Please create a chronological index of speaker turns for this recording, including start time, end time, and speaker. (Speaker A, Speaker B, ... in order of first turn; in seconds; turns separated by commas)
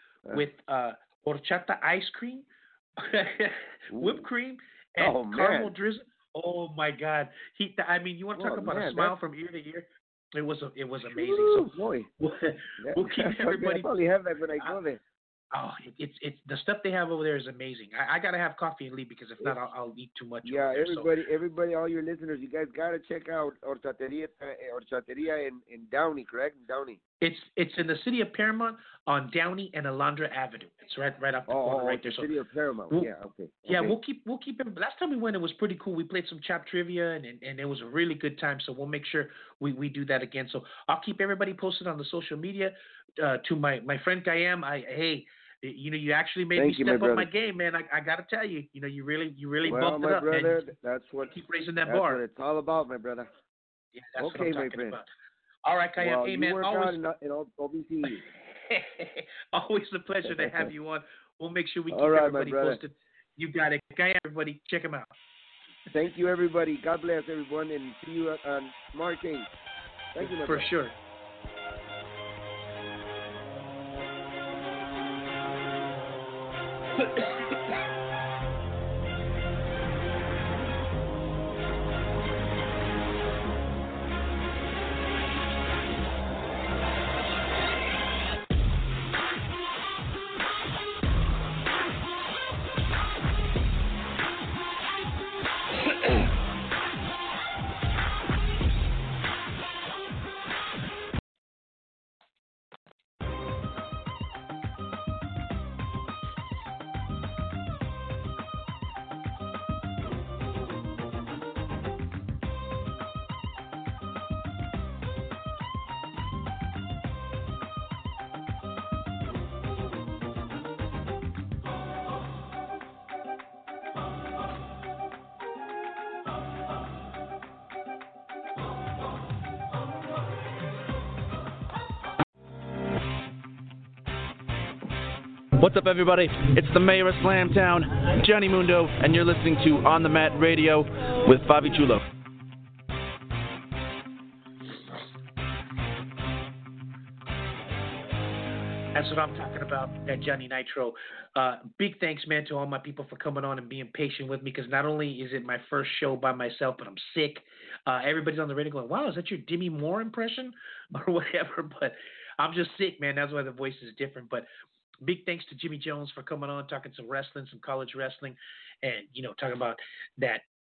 Speaker A: 0.3-2.5, Speaker A: 3.0-13.9, Speaker B: 3.9-4.2, Speaker B: 5.0-5.7, Speaker B: 8.4-9.1, Speaker B: 11.1-12.1, Speaker B: 12.8-15.0, Speaker A: 15.5-21.1, Speaker B: 20.4-27.0, Speaker A: 27.2-32.3, Speaker B: 31.5-34.0, Speaker A: 33.6-50.6, Speaker B: 46.5-47.3, Speaker B: 49.6-51.3, Speaker A: 51.2-52.2, Speaker B: 51.9-53.3, Speaker A: 53.9-55.1, Speaker B: 54.2-55.0, Speaker A: 55.6-57.0, Speaker B: 56.0-58.2, Speaker A: 58.7-65.1, Speaker B: 60.3-60.7, Speaker B: 61.9-62.8, Speaker B: 65.9-69.5, Speaker B: 70.1-70.7, Speaker A: 70.2-70.9, Speaker A: 77.0-77.6, Speaker C: 135.6-142.0, Speaker A: 148.9-164.4, Speaker A: 165.0-170.4